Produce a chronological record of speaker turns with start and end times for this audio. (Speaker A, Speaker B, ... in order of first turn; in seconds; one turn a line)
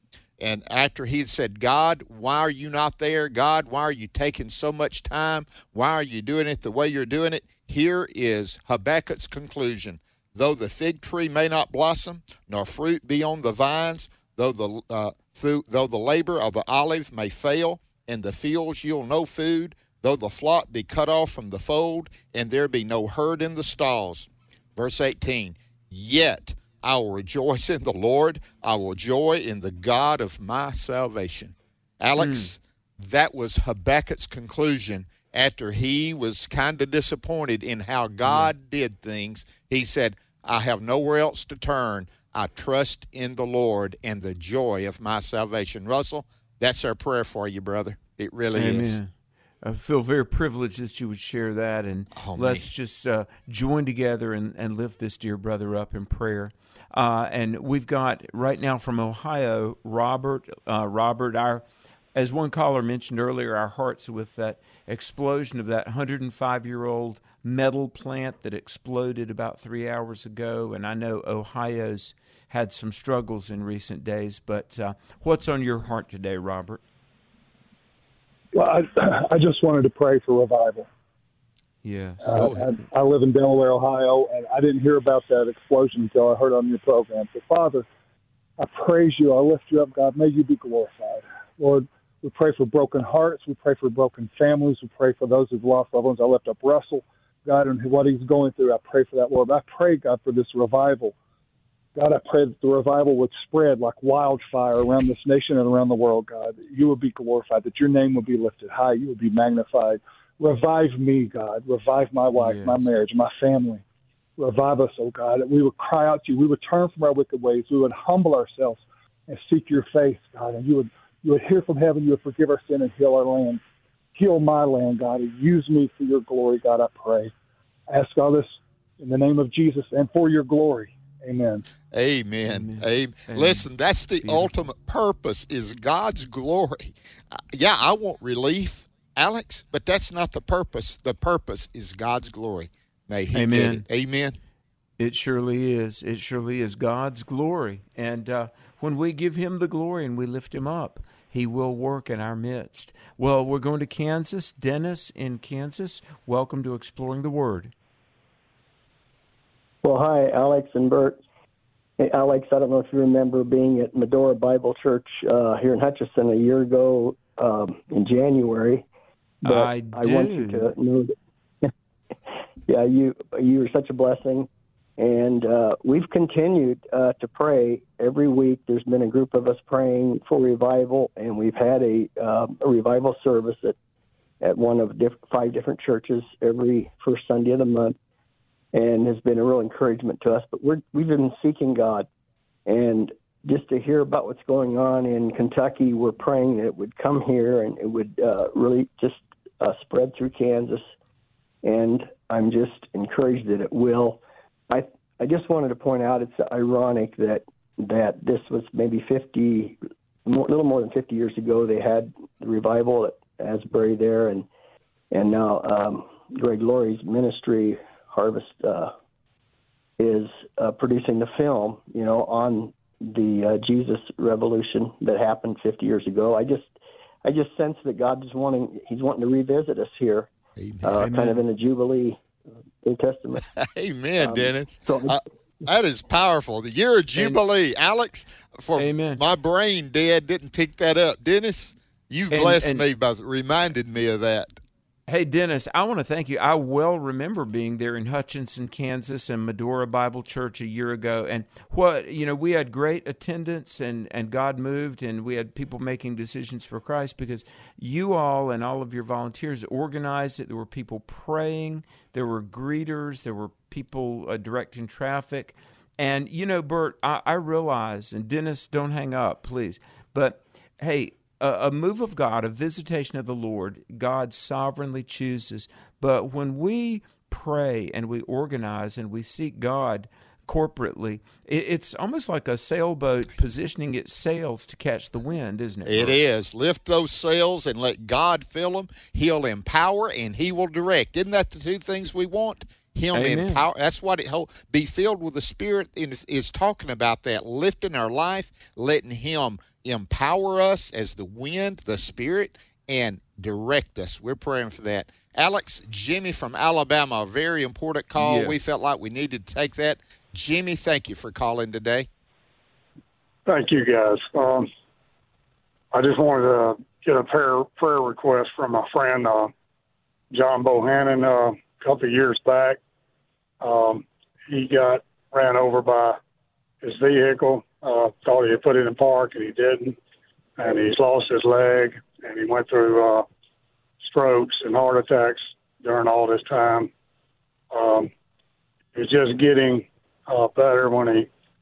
Speaker A: 0.4-49.0
Speaker B: 32.2-32.5
Speaker B: 38.2-38.5
Speaker B: 48.5-61.6
Speaker A: 52.1-52.7
Speaker B: 62.1-76.8
Speaker C: 78.5-80.9
Speaker B: 81.8-82.8
Speaker C: 82.2-87.8
Speaker A: 82.3-82.7
Speaker C: 88.6-101.1
Speaker C: 101.9-113.8
Speaker B: 112.3-112.9
Speaker C: 114.4-123.6
Speaker C: 124.1-127.3
Speaker C: 127.9-131.6
Speaker A: 131.9-144.3
Speaker B: 132.5-133.7
Speaker B: 134.2-134.5
Speaker B: 143.3-143.8
Speaker B: 145.0-157.7
Speaker D: 159.8-161.2
Speaker D: 162.0-168.8
Speaker B: 169.4-170.7
Speaker D: 169.4-171.1
Speaker D: 172.7-183.8
Speaker D: 184.4-187.9
Speaker D: 188.7-192.1
Speaker D: 192.7-200.9
Speaker D: 201.6-214.5
Speaker D: 215.1-218.9
Speaker D: 220.0-226.7
Speaker D: 227.2-230.3
Speaker A: 230.6-230.9
Speaker D: 230.8-232.2
Speaker B: 230.9-231.4
Speaker D: 232.8-233.4
Speaker A: 233.6-244.5
Speaker D: 234.2-235.2
Speaker B: 238.8-239.2
Speaker B: 242.3-242.8
Speaker B: 245.1-286.2
Speaker A: 285.8-312.1
Speaker B: 293.1-293.6
Speaker B: 308.2-308.6
Speaker E: 313.4-314.7
Speaker E: 315.9-319.5
Speaker E: 320.3-322.8
Speaker E: 323.6-326.2
Speaker E: 326.8-330.0
Speaker E: 330.6-333.2
Speaker E: 334.0-336.9
Speaker E: 337.7-338.1
Speaker E: 338.9-341.3